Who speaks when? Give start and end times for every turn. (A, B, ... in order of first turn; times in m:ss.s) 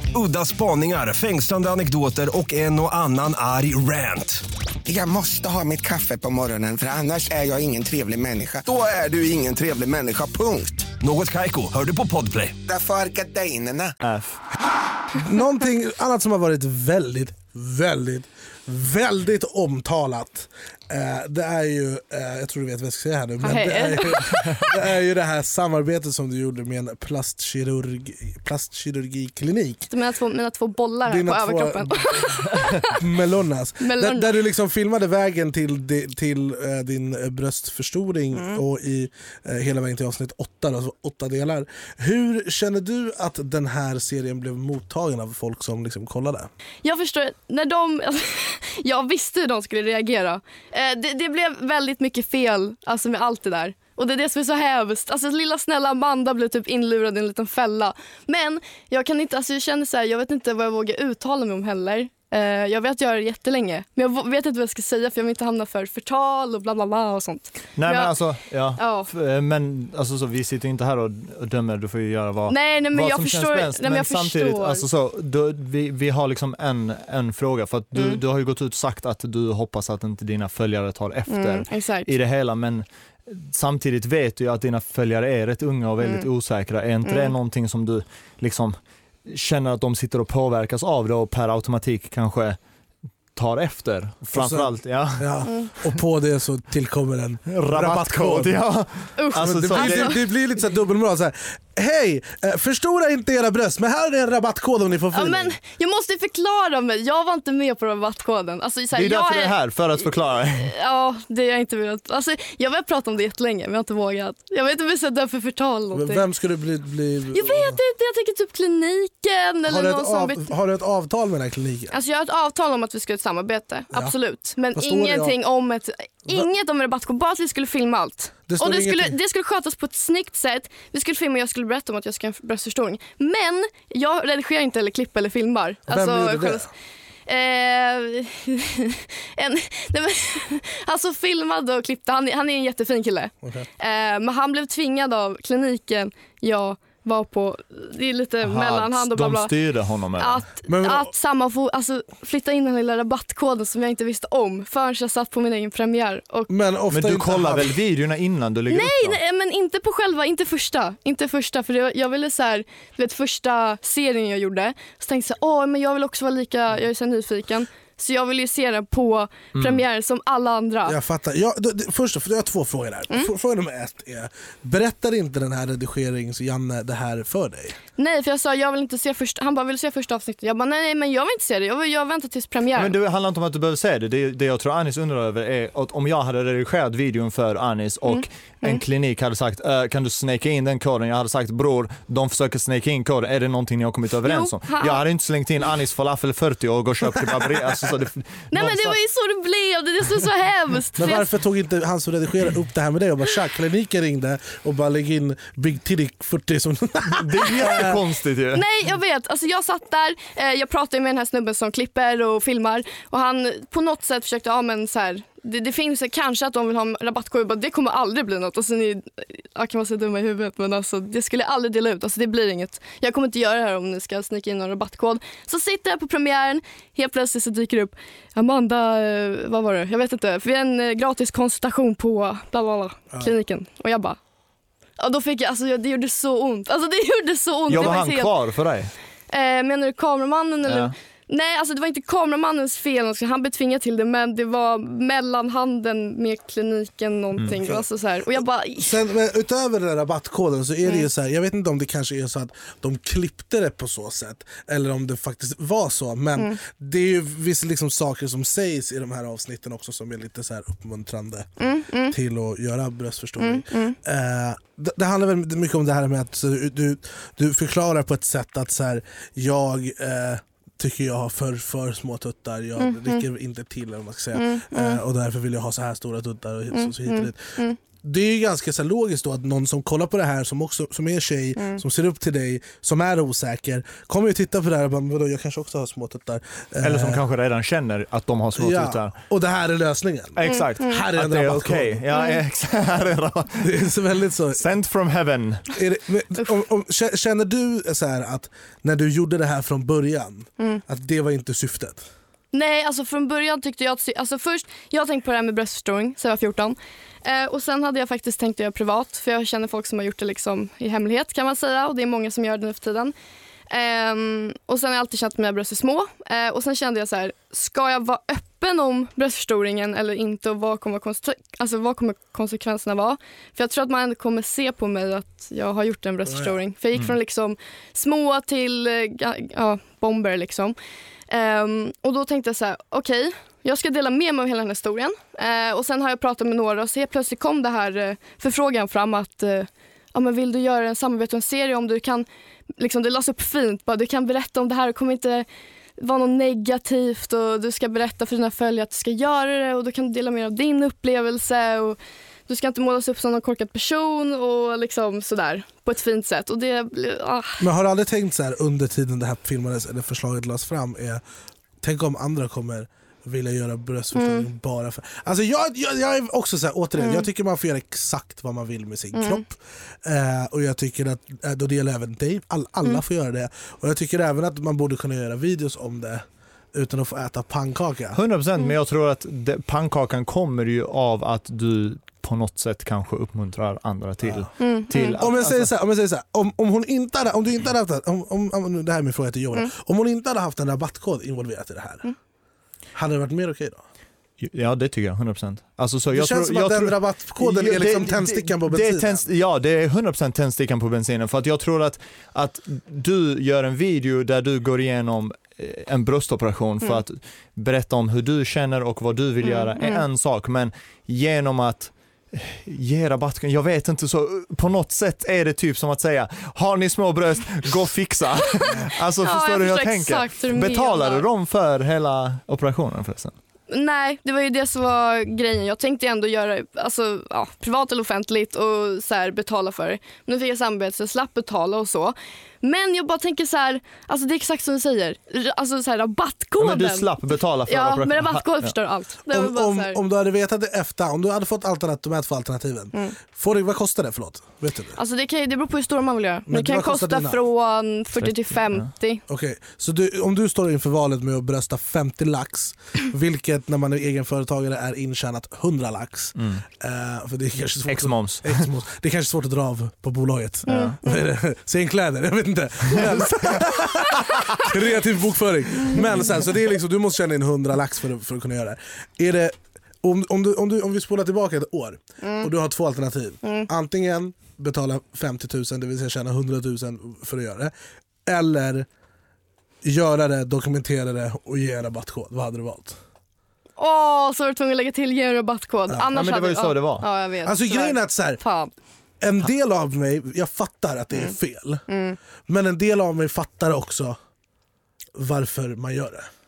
0:00.1-0:04.4 A
0:04.8-0:10.9 B
0:11.0-0:12.5 A
0:12.6-0:14.0 B
0:14.0-0:14.4 C
0:15.1-0:29.9 D
0:23.4-0:24.6 E
0:29.9-0:33.0 E
0:31.0-0:46.5 D
0:33.8-0:34.4 E
0:38.4-0:38.6 E
0:46.8-1:08.1 E
1:07.8-1:32.6 C
1:08.8-1:09.1 E
1:12.5-1:14.8 E
1:18.0-1:18.2 E
1:21.3-1:22.1 E
1:27.0-1:27.3 E
1:33.3-1:35.3 C
1:34.3-1:38.6 D
1:37.5-1:40.2 C
1:39.2-1:40.2 E
1:39.4-1:45.6 D
1:45.1-1:49.5 E
1:49.0-1:50.7 C
1:50.6-1:56.2 E
1:55.9-1:57.8 D
1:57.3-2:00.5 E
1:59.6-2:02.0 D
2:01.9-2:16.7 E
2:04.7-2:05.4 D
2:08.5-2:09.2 D
2:15.9-2:16.7 D
2:17.3-2:29.5 E
2:23.4-2:23.7 D
2:28.4-2:30.4 C
2:30.2-2:36.5 E
2:30.7-2:31.1 D
2:36.5-2:37.8 D
2:36.9-2:39.2 C
2:38.7-2:51.0 E
2:49.5-2:49.8 C
2:50.9-2:57.8 D
2:58.0-3:02.9 E
3:02.8-3:19.0 C
3:08.0-3:08.8 E
3:14.3-3:15.0 E
3:17.2-3:17.5 D
3:18.5-3:21.3 E
3:21.0-3:28.0 D
3:27.1-3:28.6 C
3:28.5-3:54.2 E
3:55.0-3:58.3 E
3:57.7-3:58.9 C
3:59.3-4:09.0 E
4:00.6-4:00.9 C
4:08.4-4:21.5 D
4:21.6-4:22.1 E
4:22.1-4:47.2 D
4:23.4-4:24.0 E
4:32.8-4:33.2 E
4:34.4-4:35.0 E
4:36.7-4:37.8 E
4:46.8-4:49.1 C
4:48.6-4:52.0 D
4:50.4-4:53.9 C
4:50.5-4:50.7 E
4:53.6-4:54.6 D
4:54.5-4:55.6 C
4:55.8-5:02.1 D
5:02.5-5:13.1 E
5:13.7-5:30.8 E
5:26.3-5:26.6 D
5:31.3-5:45.5 E
5:46.0-5:57.6 E
5:57.6-6:01.2 D
6:01.8-6:18.2 D
6:04.2-6:04.5 E
6:07.0-6:07.2 E
6:09.1-6:09.4 E
6:18.2-6:25.7 C
6:24.6-6:25.2 E
6:25.2-6:32.1 D
6:33.0-6:33.8 D
6:34.4-7:03.3 C
6:36.1-6:39.3 D
6:49.4-6:50.0 E
6:59.2-7:01.2 E
7:03.7-7:17.1 E
7:16.6-7:18.8 C
7:17.7-7:20.0 E
7:19.3-7:25.0 D
7:25.0-7:29.2 E
7:26.5-7:27.4 D
7:28.2-7:28.9 C
7:29.3-7:57.7 D
7:37.9-7:38.7 C
7:40.7-7:41.0 C
7:40.7-7:41.2 E
7:52.2-7:52.5 E
7:53.4-7:53.7 E
7:58.2-7:58.9 D
7:59.8-8:03.0 D
8:03.8-8:08.7 E
8:05.9-8:06.3 D
8:06.1-8:07.0 C
8:07.4-8:08.4 D
8:09.2-8:11.8 D
8:11.9-8:12.2 E
8:12.5-8:14.2 D
8:15.2-8:16.3 D